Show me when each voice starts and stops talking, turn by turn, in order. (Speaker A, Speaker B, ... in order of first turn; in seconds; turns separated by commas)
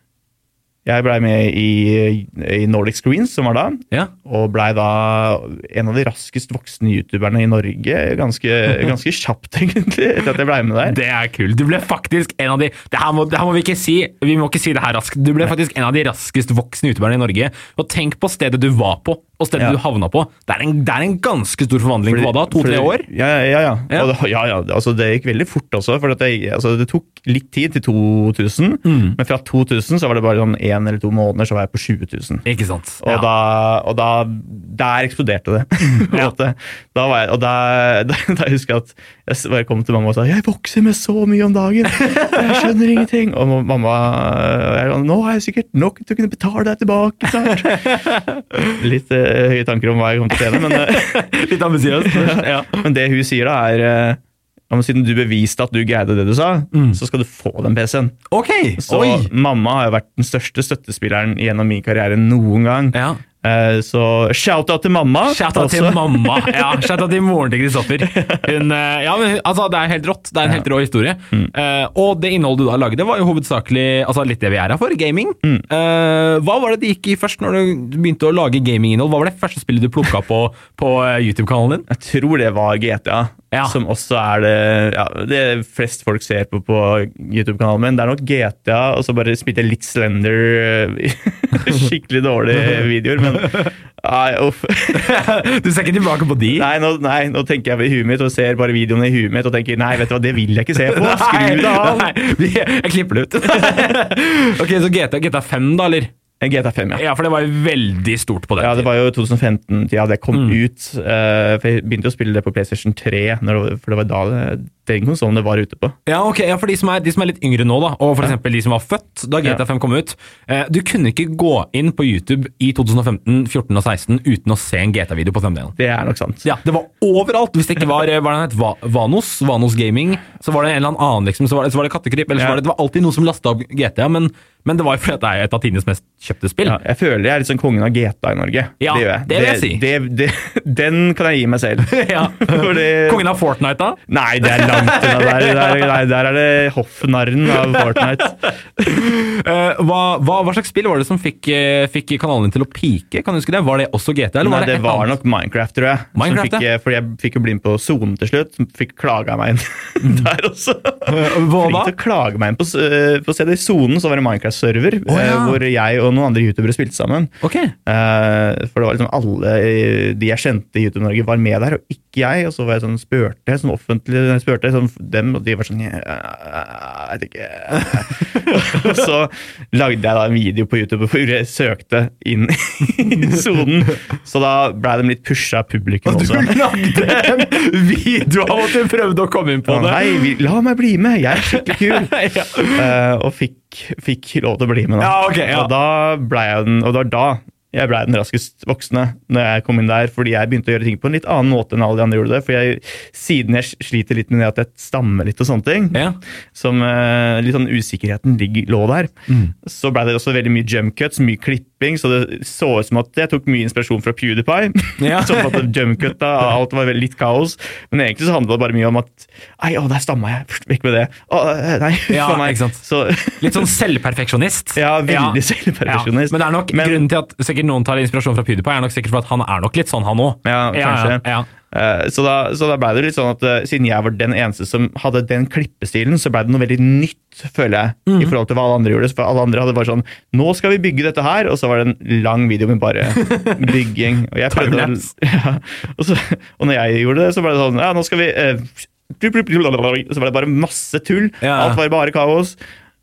Speaker A: 0.8-11.0, Speaker B: 10.8-23.1, Speaker A: 22.1-32.4, Speaker B: 28.9-29.2, Speaker B: 32.4-33.3, Speaker A: 33.0-48.0, Speaker B: 35.9-36.3, Speaker B: 42.0-42.6, Speaker B: 47.4-48.8, Speaker A: 48.7-51.4, Speaker B: 50.4-52.9, Speaker A: 52.0-58.2, Speaker B: 56.7-57.0, Speaker B: 58.3-59.3, Speaker A: 58.8-66.9, Speaker B: 62.9-63.2, Speaker B: 65.3-81.9, Speaker A: 68.0-68.5, Speaker A: 81.9-95.2, Speaker B: 83.5-83.8, Speaker B: 92.7-93.7, Speaker B: 94.9-96.7, Speaker A: 96.5-102.1, Speaker B: 100.8-106.1, Speaker A: 103.5-103.8, Speaker A: 106.4-107.0, Speaker B: 106.9-108.9, Speaker A: 108.6-116.0, Speaker B: 110.3-110.6, Speaker B: 116.0-125.8, Speaker A: 125.8-126.5, Speaker B: 126.4-136.8, Speaker A: 136.6-143.3, Speaker B: 138.8-139.8, Speaker B: 141.9-146.0, Speaker A: 144.1-149.0, Speaker B: 147.5-155.1, Speaker A: 154.4-167.3, Speaker B: 156.1-156.6, Speaker B: 160.0-160.3, Speaker B: 161.1-161.9, Speaker B: 165.1-165.6, Speaker B: 167.4-167.8, Speaker A: 167.9-187.5, Speaker B: 177.8-178.8, Speaker B: 183.2-183.9, Speaker B: 186.0-190.3, Speaker A: 189.7-192.1, Speaker B: 191.4-192.9, Speaker A: 192.7-209.1, Speaker B: 195.0-195.7, Speaker B: 205.9-206.2, Speaker B: 209.3-209.5, Speaker A: 209.6-223.7, Speaker B: 215.0-215.7, Speaker B: 222.1-222.8, Speaker B: 223.4-231.5, Speaker A: 224.8-227.0, Speaker A: 230.4-252.6, Speaker B: 238.1-238.3, Speaker B: 243.1-243.7, Speaker B: 244.5-245.1, Speaker B: 251.4-251.8